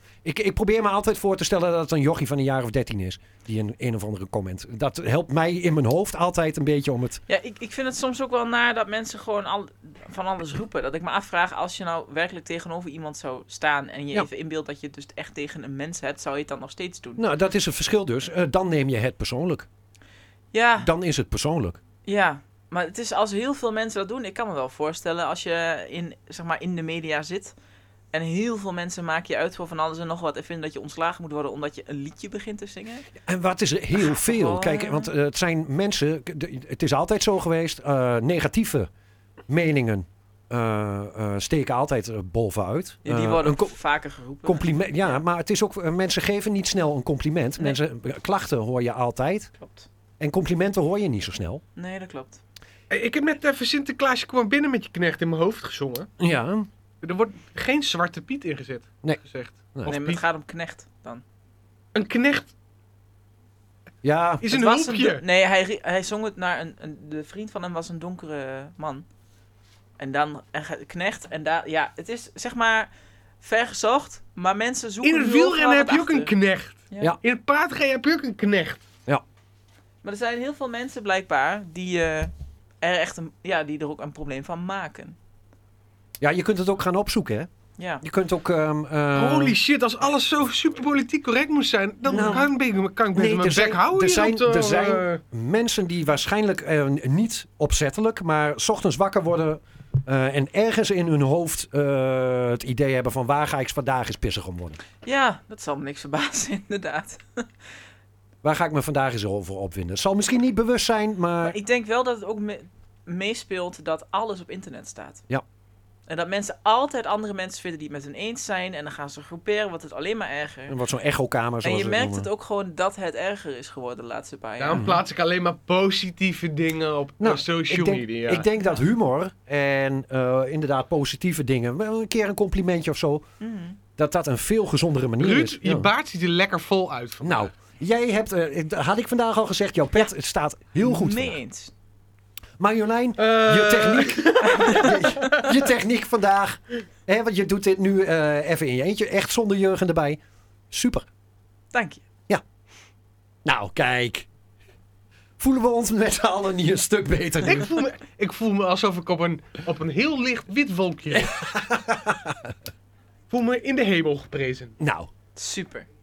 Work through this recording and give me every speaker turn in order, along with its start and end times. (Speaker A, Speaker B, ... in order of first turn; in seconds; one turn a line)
Speaker A: 0.2-7.2
Speaker B: 7.3-17.2
Speaker A: 17.2-19.7
Speaker B: 20.5-20.9
Speaker A: 20.8-21.8
Speaker B: 22.1-27.6
Speaker B: 28.1-33.1
Speaker A: 33.2-38.9
Speaker B: 34.0-35.1
Speaker A: 39.5-43.8
Speaker B: 43.0-45.2
Speaker A: 44.4-49.5
Speaker B: 49.6-49.9
Speaker A: 50.2-51.6
Speaker B: 51.8-52.4
Speaker C: 52.9-56.1
Speaker A: 56.2-56.7
Speaker C: 57.0-60.2
Speaker B: 59.9-61.2
Speaker C: 62.0-62.5
Speaker A: 64.0-64.5
Speaker C: 64.4-65.2
Speaker B: 64.5-69.1
Speaker B: 70.0-72.9
Speaker B: 73.4-76.3
Speaker C: 75.0-78.8
Speaker B: 76.9-77.2
Speaker B: 80.0-85.2
Speaker A: 86.2-87.5
Speaker B: 87.8-88.0
Speaker A: 88.0-89.6
Speaker C: 89.1-95.2
Speaker B: 92.1-92.5
Speaker A: 92.1-92.5
Speaker A: 93.1-104.8
Speaker B: 105.0-107.5
Speaker A: 108.4-111.6
Speaker B: 111.4-115.2
Speaker B: 116.1-120.8
Speaker A: 120.7-122.3
Speaker B: 121.6-124.9
Speaker C: 124.6-128.5
Speaker A: 124.7-125.0
Speaker A: 127.2-133.2
Speaker B: 133.4-133.8
Speaker A: 134.0-135.9
Speaker C: 135.2-137.5
Speaker A: 137.2-141.4
Speaker B: 140.8-141.7
Speaker A: 142.6-150.2
Speaker C: 143.2-145.6
Speaker B: 144.4-145.4
Speaker A: 150.7-151.1
Speaker B: 151.7-152.0
Speaker A: 153.4-154.3
Speaker A: 155.4-157.7
Speaker C: 157.4-161.4
Speaker A: 161.1-162.6
Speaker C: 163.3-164.8
Speaker A: 164.8-165.1
Speaker B: 165.4-165.9